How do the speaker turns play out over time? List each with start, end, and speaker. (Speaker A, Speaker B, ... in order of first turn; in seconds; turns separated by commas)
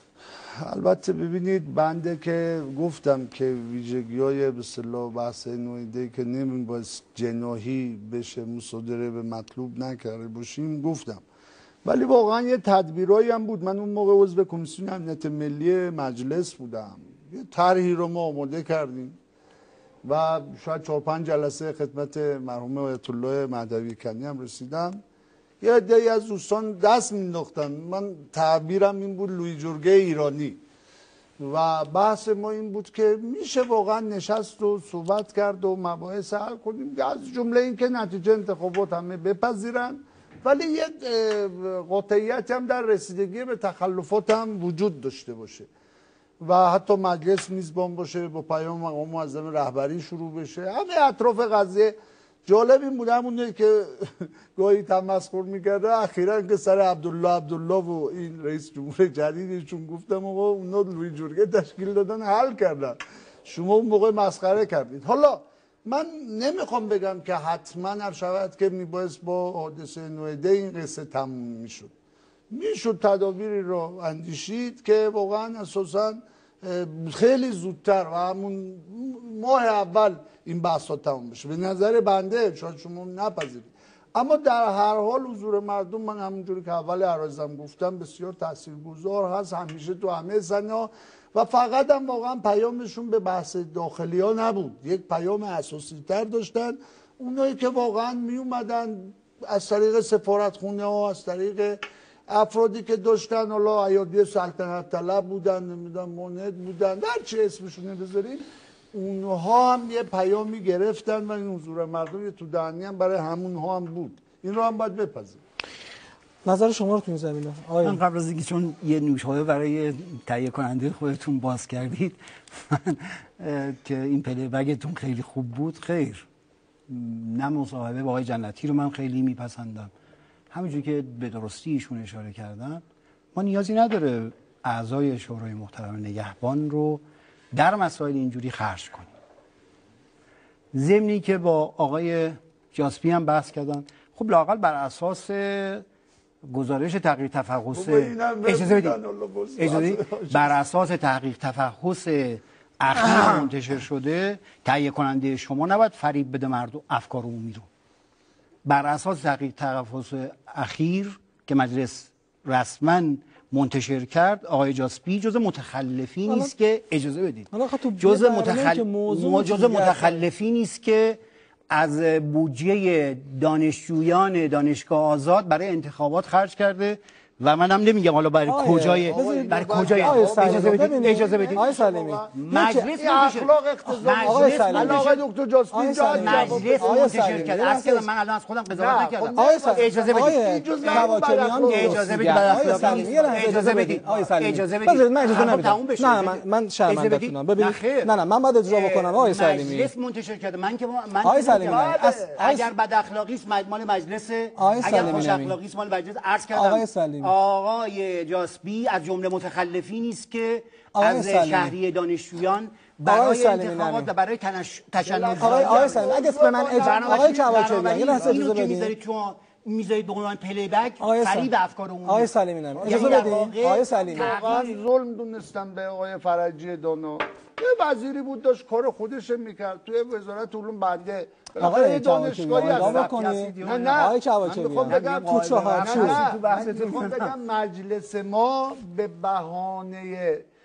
Speaker A: 0.6-11.2, Speaker A: 11.8-19.2, Speaker A: 20.0-25.0, Speaker A: 25.6-30.6, Speaker A: 31.4-45.7, Speaker A: 46.4-71.9, Speaker A: 72.5-115.4, Speaker B: 116.4-118.0, Speaker C: 117.8-126.3, Speaker C: 126.9-129.9, Speaker C: 130.5-139.1, Speaker C: 140.7-145.8, Speaker C: 146.4-149.0, Speaker A: 147.7-150.6, Speaker C: 149.6-157.7, Speaker C: 158.7-171.2, Speaker B: 166.3-166.5, Speaker B: 167.5-170.2, Speaker C: 171.7-181.6, Speaker B: 178.5-183.0, Speaker A: 179.1-182.3, Speaker C: 182.3-185.2, Speaker A: 183.0-187.6, Speaker B: 184.2-188.1, Speaker C: 186.1-216.2, Speaker A: 188.7-194.3, Speaker B: 189.3-199.9, Speaker B: 201.2-202.7, Speaker A: 201.5-202.3, Speaker B: 204.6-205.6, Speaker A: 204.8-205.2, Speaker B: 206.5-207.3, Speaker B: 210.9-211.8, Speaker B: 213.0-214.1, Speaker A: 215.0-218.5, Speaker B: 215.4-218.9, Speaker C: 216.8-224.8, Speaker B: 221.0-221.5, Speaker B: 222.0-224.3, Speaker A: 222.8-223.5, Speaker A: 224.0-240.5, Speaker B: 231.6-236.2, Speaker C: 232.5-234.0, Speaker C: 234.8-237.3